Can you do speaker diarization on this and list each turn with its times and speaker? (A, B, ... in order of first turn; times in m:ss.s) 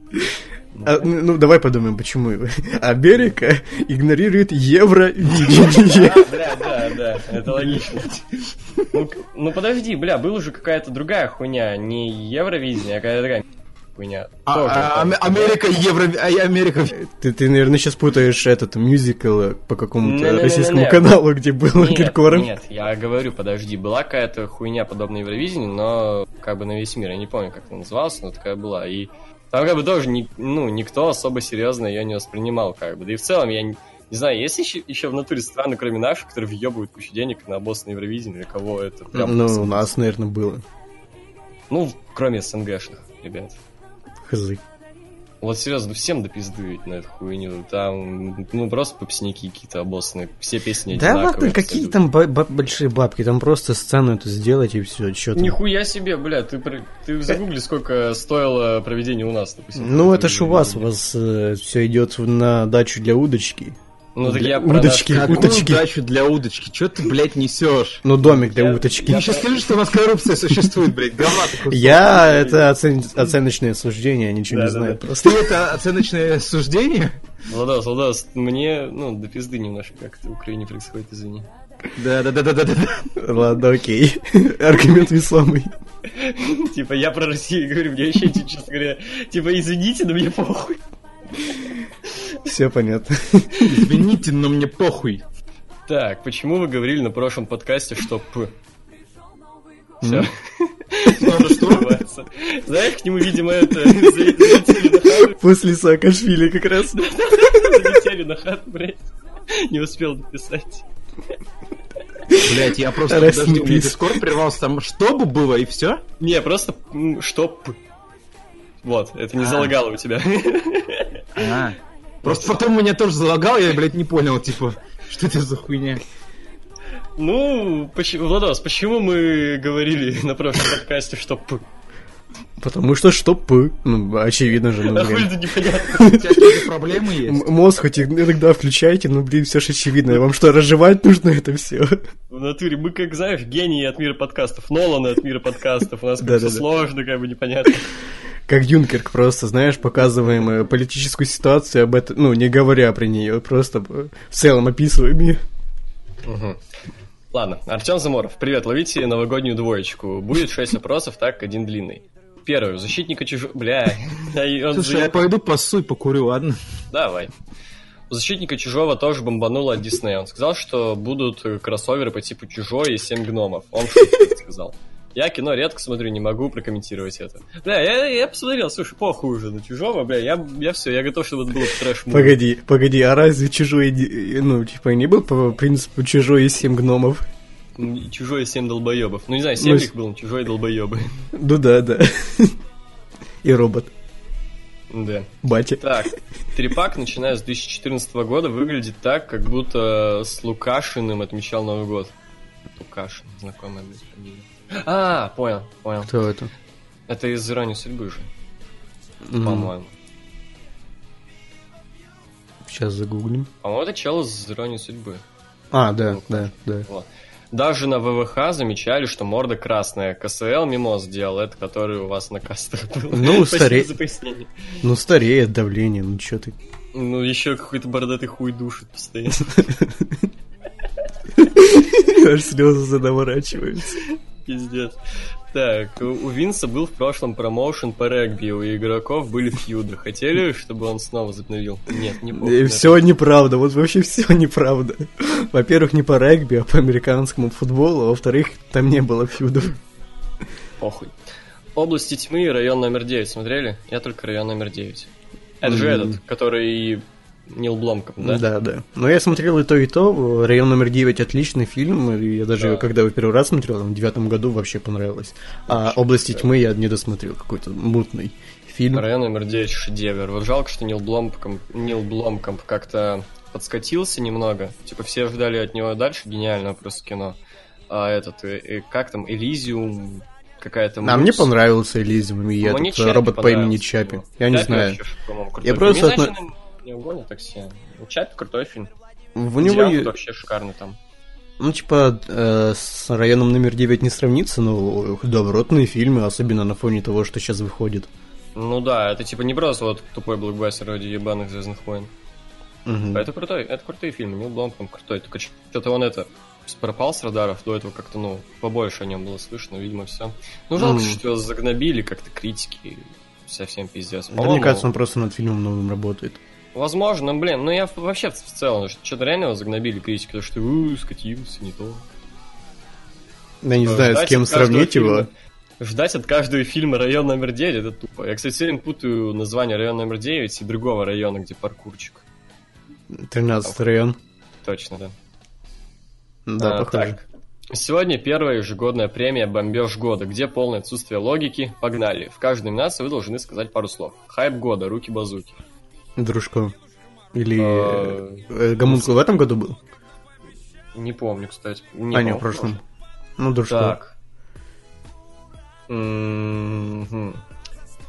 0:00.1-0:06.3 A
0:00.7-0:01.1 B
0:05.6-0:08.1 B
0:07.4-0:08.8 C
0:08.9-0:15.6 B
0:14.5-0:16.9 C
0:16.9-0:22.5 A
0:20.0-0:21.2 B
0:21.7-0:39.9 B
0:39.1-0:40.6 A
0:41.7-0:43.6 B
0:44.2-0:44.6 A
0:45.4-0:52.0 B
0:50.9-0:55.6 A
0:55.4-1:00.9 B
0:59.8-1:05.8 A
1:04.1-1:05.5 B
1:05.1-1:08.1 C
1:08.0-1:09.4 A
1:08.2-1:09.6 B
1:09.1-1:12.1 C
1:11.7-1:15.4 A
1:12.0-1:12.7 B
1:14.5-1:15.1 B
1:15.2-1:17.2 C
1:17.5-1:21.5 B
1:22.0-1:23.1 C
1:23.2-1:25.7 A
1:26.1-1:30.8 B
1:32.4-1:33.7 A
1:33.6-1:35.2 C
1:35.9-1:38.5 B
1:40.0-1:40.3 A
1:40.0-1:45.4 B
1:41.1-1:42.0 C
1:43.8-1:47.9 A
1:46.9-1:50.8 B
1:52.3-1:54.2 A
1:52.4-1:56.0 C
1:56.2-1:57.8 B
1:58.8-2:01.5 B
1:59.4-1:59.7 C
2:01.4-2:06.0 C
2:02.2-2:02.6 B
2:07.2-2:11.6 B
2:12.6-2:16.7 A
2:14.8-2:16.2 B
2:16.1-2:17.5 C
2:17.2-2:22.0 A
2:22.3-2:27.9 B
2:26.2-2:26.6 A
2:28.5-2:35.4 A
2:36.2-2:36.6 B
2:37.3-2:45.2 B
2:44.7-2:46.6 C
2:46.9-2:47.3 B
2:48.1-3:02.4 B
3:02.1-3:07.2 A
3:07.8-3:11.2 B
3:09.6-3:09.9 A
3:11.3-3:12.6 A
3:13.4-3:13.9 A
3:14.9-3:22.1 B
3:15.4-3:15.8 A
3:22.8-3:26.1 B
3:26.1-3:26.5 A
3:27.1-3:28.3 B
3:29.2-3:29.7 A
3:29.4-3:29.9 B
3:32.6-3:33.5 A
3:33.6-3:35.2 B
3:35.7-3:36.9 A
3:36.0-3:44.8 B
3:43.1-3:43.9 A
3:44.8-3:46.6 A
3:46.9-3:49.6 B
3:49.6-3:50.1 A
3:51.4-3:54.0 A
3:54.0-4:03.1 B
4:02.3-4:09.8 A
4:10.8-4:11.1 B
4:11.7-4:18.4 B
4:15.6-4:16.2 A
4:18.2-4:29.1 A
4:22.6-4:22.9 B
4:25.7-4:26.5 B
4:28.9-4:37.4 B
4:37.9-4:41.5 B
4:41.0-4:45.0 A
4:42.6-4:48.9 B
4:45.6-4:46.4 A
4:49.4-4:50.2 A
4:49.6-4:51.0 B
4:51.6-4:58.1 A
4:58.6-5:02.1 B
5:02.9-5:03.3 A
5:03.1-5:14.9 B
5:10.8-5:11.2 A
5:14.3-5:16.4 A
5:16.7-5:22.0 B
5:23.6-5:25.3 A
5:23.8-5:32.2 B
5:33.1-5:34.2 A
5:34.6-5:35.1 B
5:36.5-5:37.2 A
5:36.6-5:45.6 B
5:46.2-5:46.7 A
5:47.3-5:49.8 A
5:47.6-5:49.1 B
5:50.9-5:52.8 B
5:52.1-5:52.8 A
5:53.4-5:54.0 A
5:53.7-5:54.1 B
5:55.9-5:57.4 B